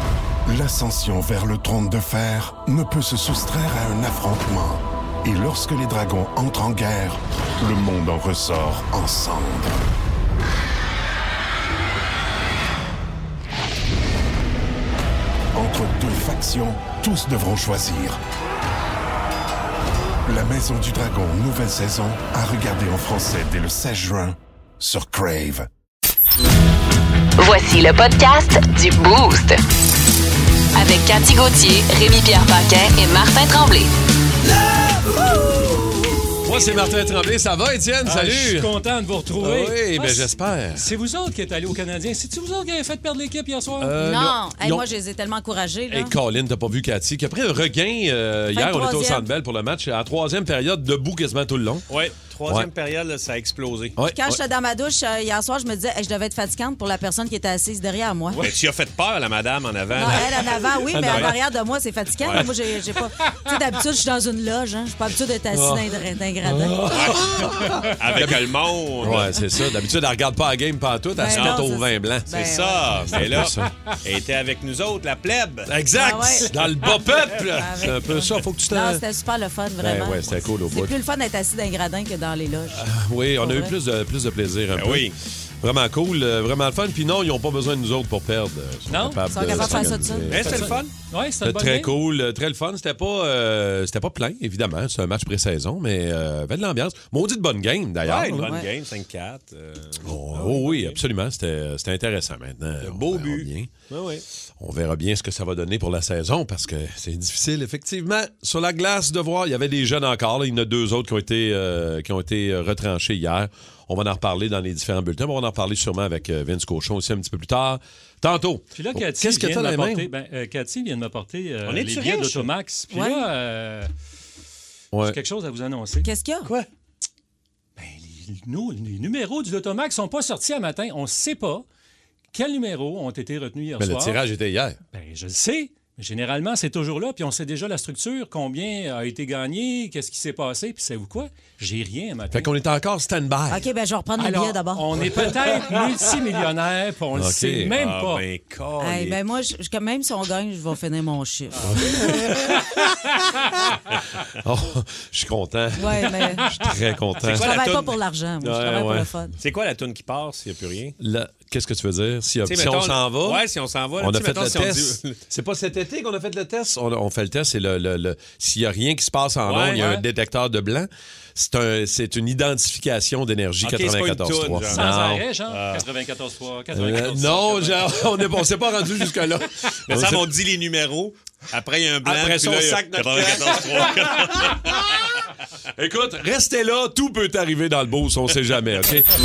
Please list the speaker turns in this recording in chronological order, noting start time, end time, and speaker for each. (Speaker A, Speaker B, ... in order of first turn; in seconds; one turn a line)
Speaker A: 0.5-9.8
Speaker A: 15.5-18.2
Speaker A: 20.2-25.7
Speaker B: 27.4-29.6
Speaker B: 30.8-33.9
Speaker C: 34.9-35.7
Speaker C: 36.4-38.7
Speaker D: 38.0-44.0
Speaker C: 39.4-40.9
Speaker C: 43.8-44.9
Speaker E: 44.0-46.1
Speaker C: 45.9-51.8
Speaker E: 48.5-49.3
Speaker F: 51.9-54.0
Speaker C: 54.0-54.4
Speaker E: 54.1-58.4
Speaker F: 58.4-61.3
Speaker E: 60.0-66.8
Speaker C: 60.9-61.3
Speaker F: 62.2-62.5
Speaker C: 65.5-72.3
Speaker F: 66.9-67.2
Speaker F: 68.0-69.4
Speaker E: 71.2-73.2
Speaker F: 71.3-71.7
Speaker F: 72.3-75.7
Speaker C: 73.1-73.7
Speaker C: 75.7-79.0
Speaker E: 75.9-76.5
Speaker D: 76.6-77.0
Speaker E: 77.4-82.9
Speaker C: 79.8-81.0
Speaker C: 82.7-90.9
Speaker E: 83.4-83.7
Speaker F: 84.7-85.2
Speaker D: 88.9-89.7
Speaker E: 89.3-90.4
Speaker F: 90.3-90.9
Speaker D: 90.4-92.0
Speaker C: 91.4-98.6
Speaker F: 98.0-101.0
Speaker C: 100.0-103.7
Speaker F: 102.8-104.2
Speaker C: 104.6-120.1
Speaker D: 118.7-123.9
Speaker F: 121.7-122.5
Speaker E: 122.9-123.2
Speaker C: 124.9-125.2
Speaker D: 125.0-126.1
Speaker E: 126.0-126.5
Speaker D: 127.8-131.6
Speaker D: 132.3-134.2
Speaker C: 133.8-134.8
Speaker D: 134.9-142.5
Speaker C: 142.3-143.7
Speaker E: 143.5-144.9
Speaker D: 144.2-148.2
Speaker C: 147.1-147.8
Speaker F: 147.8-149.2
Speaker E: 148.8-152.2
Speaker C: 151.7-153.1
Speaker C: 154.4-159.1
Speaker E: 155.8-156.5
Speaker F: 157.2-157.9
Speaker E: 157.3-159.3
Speaker F: 159.4-161.0
Speaker C: 161.0-163.4
Speaker F: 162.4-165.2
Speaker C: 164.0-175.3
Speaker F: 169.5-170.0
Speaker F: 173.6-174.8
Speaker D: 174.7-178.2
Speaker F: 175.5-175.8
Speaker C: 176.7-180.3
Speaker F: 179.9-185.0
Speaker C: 182.0-185.1
Speaker C: 185.8-189.1